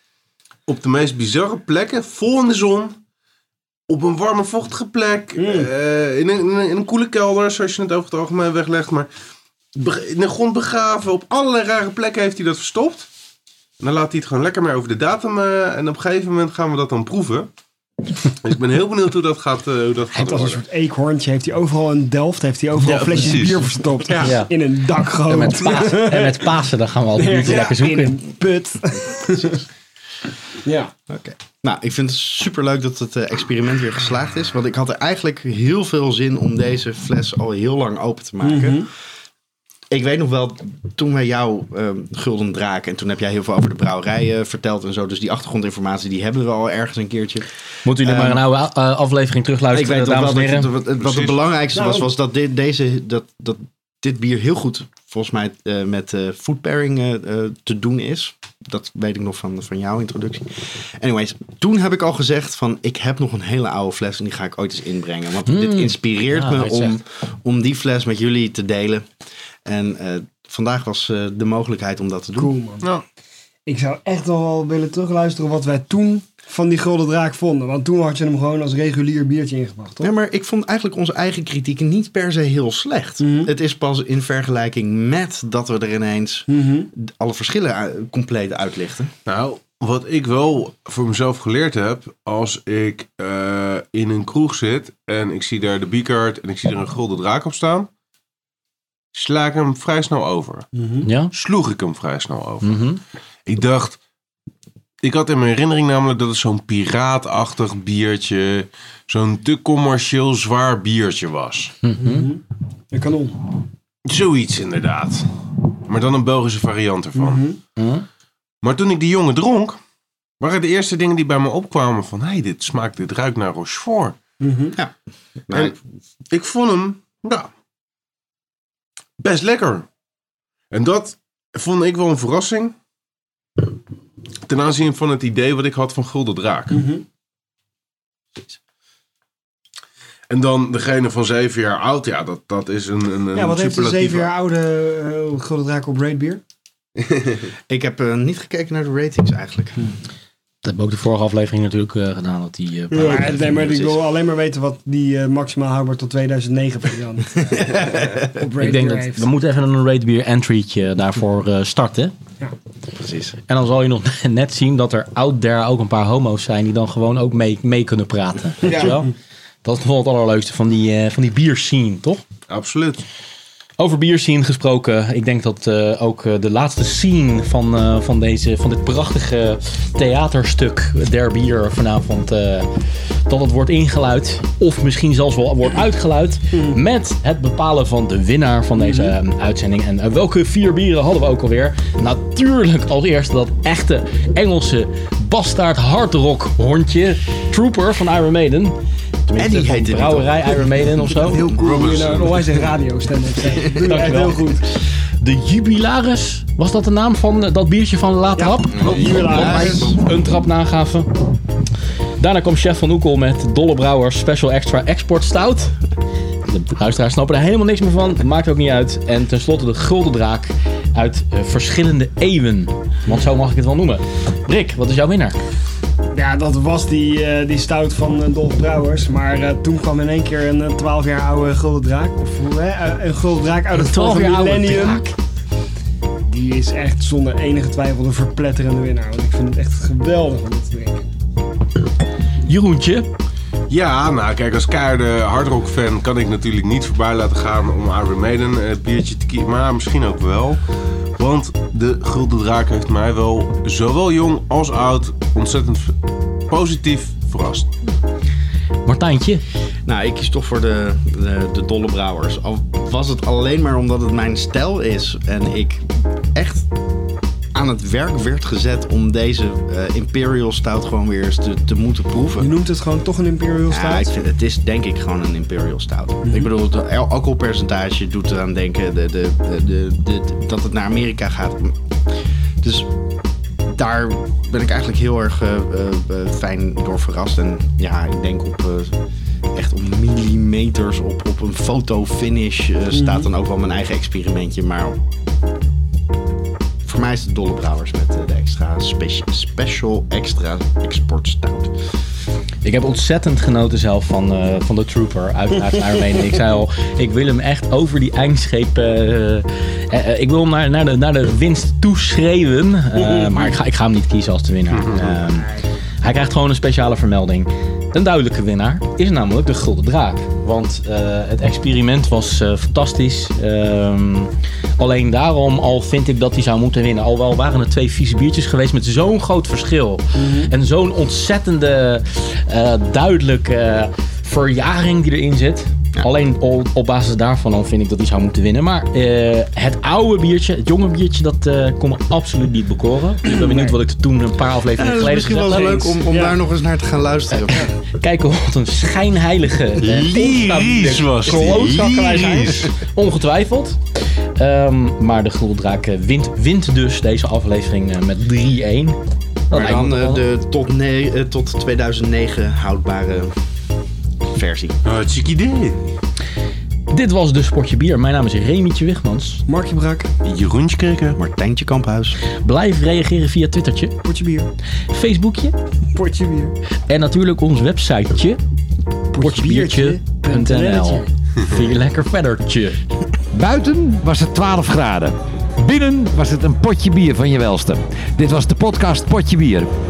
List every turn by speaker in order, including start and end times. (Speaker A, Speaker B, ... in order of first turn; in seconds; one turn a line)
Speaker A: 0.7-3.0
Speaker A: 3.9-9.1
Speaker B: 5.4-5.7
Speaker A: 9.8-13.1
Speaker A: 13.8-17.5
Speaker A: 18.4-20.6
Speaker B: 20.1-26.6
Speaker A: 22.8-24.3
Speaker C: 24.2-24.5
Speaker C: 25.2-28.2
Speaker B: 27.2-29.6
Speaker B: 30.6-30.9
Speaker D: 31.1-38.9
Speaker B: 38.4-38.9
Speaker D: 39.9-47.5
Speaker C: 47.9-50.7
Speaker D: 48.0-48.4
Speaker D: 49.7-69.1
Speaker A: 51.0-51.4
Speaker B: 51.7-52.1
Speaker C: 65.5-66.9
Speaker D: 69.7-72.5
Speaker B: 72.4-72.9
Speaker B: 73.7-80.1
Speaker D: 80.0-89.1
Speaker B: 83.2-83.5
Speaker B: 86.5-86.9
Speaker A: 89.3-97.9
Speaker A: 99.1-100.7
Speaker B: 100.8-101.1
Speaker C: 101.0-101.3
Speaker A: 101.3-102.8
Speaker C: 102.6-103.0
Speaker A: 103.5-104.0
Speaker A: 105.0-111.8
Speaker C: 111.8-112.3
Speaker B: 112.0-113.4
Speaker A: 114.1-117.4
Speaker B: 117.2-117.6
Speaker C: 117.8-118.1
Speaker A: 118.6-119.8
Speaker A: 120.4-124.2
Speaker B: 124.4-124.8
Speaker D: 125.5-125.8
Speaker A: 125.5-125.8
Speaker A: 126.3-127.5
Speaker A: 129.2-129.9
Speaker A: 130.7-132.8
Speaker A: 134.4-136.8
Speaker B: 136.7-137.0
Speaker A: 140.3-144.3
Speaker B: 143.3-146.4
Speaker A: 147.0-147.4
Speaker D: 147.7-149.9
Speaker C: 150.6-154.0
Speaker B: 152.9-159.3
Speaker D: 157.5-158.3
Speaker C: 158.6-162.2
Speaker D: 163.0-163.4
Speaker C: 163.5-172.2
Speaker A: 168.6-168.9
Speaker A: 172.5-173.1
Speaker C: 173.8-198.8
Speaker B: 188.8-189.2
Speaker C: 199.3-201.4
Speaker D: 199.3-201.5
Speaker B: 201.1-204.6
Speaker A: 201.5-202.7
Speaker C: 203.8-211.1
Speaker B: 208.4-210.0
Speaker D: 208.7-210.0
Speaker A: 208.8-209.8
Speaker C: 212.2-215.8
Speaker C: 216.5-225.4
Speaker B: 226.1-235.1
Speaker C: 233.8-235.1
Speaker B: 236.3-241.1
Speaker C: 242.4-243.1
Speaker A: 243.7-250.6
Speaker A: 251.2-256.0
Speaker A: 256.5-257.8
Speaker C: 258.9-259.4
Speaker D: 259.9-266.7
Speaker D: 267.5-272.5
Speaker B: 272.4-274.2
Speaker D: 273.7-281.8
Speaker B: 276.2-276.5
Speaker D: 282.6-282.9
Speaker D: 283.6-289.0
Speaker D: 289.6-295.0
Speaker B: 292.9-293.3
Speaker D: 296.8-301.8
Speaker C: 302.6-346.0
Speaker B: 313.0-313.5
Speaker A: 314.7-315.1
Speaker B: 315.4-315.6
Speaker B: 330.2-330.5
Speaker B: 343.3-343.7
Speaker D: 344.7-347.7
Speaker B: 346.1-346.4
Speaker C: 347.3-353.8
Speaker A: 349.8-352.7
Speaker B: 351.3-352.4
Speaker C: 354.4-359.0
Speaker C: 359.5-360.2
Speaker D: 359.5-363.3
Speaker D: 364.3-364.8
Speaker A: 364.9-365.8
Speaker C: 366.9-369.4
Speaker B: 369.5-370.1
Speaker A: 370.2-371.2
Speaker D: 371.2-372.2
Speaker C: 372.4-374.0
Speaker B: 374.1-374.5
Speaker C: 374.9-375.6
Speaker B: 375.9-376.6
Speaker C: 376.9-378.4
Speaker B: 379.1-381.1
Speaker C: 379.2-382.8
Speaker E: 383.3-389.7